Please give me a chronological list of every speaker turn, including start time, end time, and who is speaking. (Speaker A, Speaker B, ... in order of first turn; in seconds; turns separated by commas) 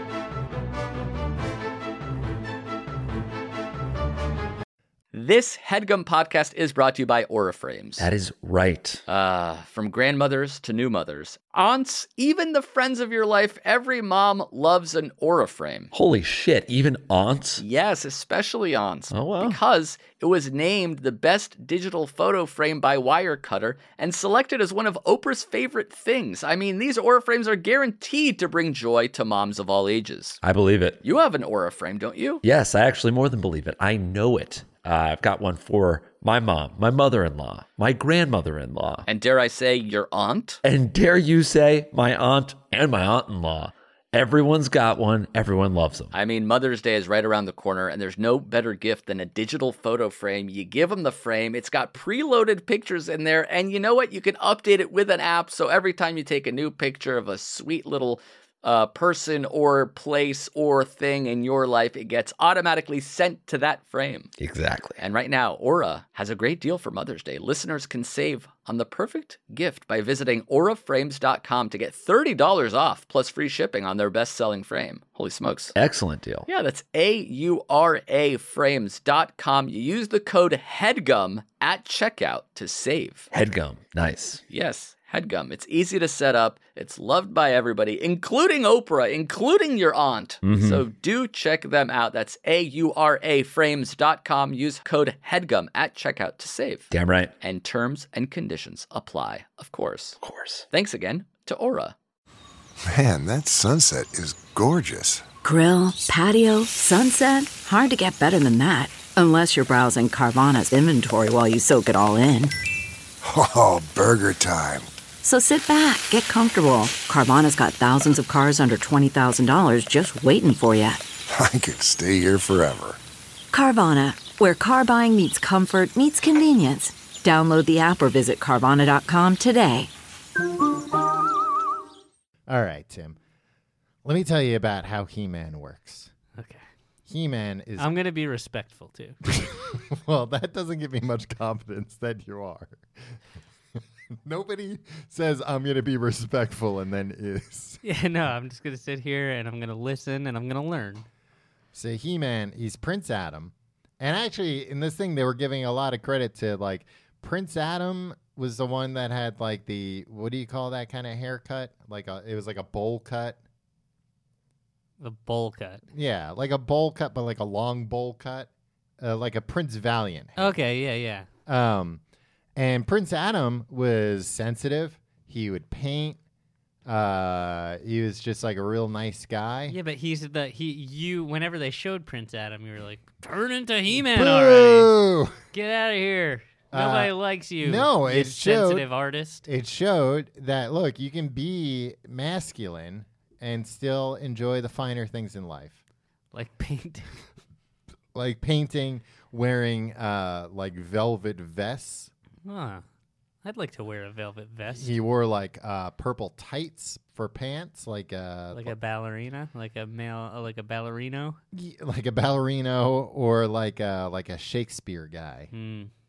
Speaker A: 5.1-8.1, Speaker B: 8.0-9.0, Speaker A: 9.1-15.9, Speaker B: 15.9-17.6, Speaker A: 17.6-30.4, Speaker B: 19.1-19.6, Speaker B: 30.4-31.0, Speaker A: 31.0-32.4, Speaker B: 32.4-39.1, Speaker A: 39.0-40.6, Speaker B: 40.6-46.1, Speaker A: 46.1-64.3, Speaker B: 64.4-65.0, Speaker A: 65.0-75.7, Speaker B: 75.7-76.5, Speaker A: 76.5-83.3, Speaker B: 83.3-84.4, Speaker A: 84.5-100.2, Speaker B: 90.4-90.8, Speaker B: 96.9-97.3, Speaker B: 100.2-100.7, Speaker A: 100.7-101.9, Speaker C: 102.8-105.2, Speaker D: 105.4-112.5, Speaker C: 113.2-114.9, Speaker D: 115.2-121.0, Speaker C: 121.3-123.0, Speaker D: 123.5-129.9, Speaker E: 132.5-133.2, Speaker E: 134.0-136.1, Speaker F: 136.3-136.6, Speaker E: 137.1-137.9, Speaker F: 137.8-139.2, Speaker E: 139.2-143.2, Speaker E: 144.1-147.8, Speaker F: 147.8-151.1, Speaker E: 151.7-163.4, Speaker F: 165.0-165.8, Speaker E: 165.9-170.6, Speaker F: 170.4-171.3, Speaker E: 171.4-172.0, Speaker E: 172.6-176.2, Speaker E: 176.8-179.8, Speaker F: 179.7-184.9, Speaker E: 183.9-185.4, Speaker F: 185.5-189.4, Speaker E: 186.7-188.9, Speaker E: 189.4-195.8, Speaker F: 196.3-197.1, Speaker E: 198.1-202.1, Speaker F: 202.4-202.8, Speaker F: 203.4-204.9, Speaker E: 204.7-208.7, Speaker F: 208.5-211.4, Speaker E: 211.5-215.5, Speaker F: 215.5-215.9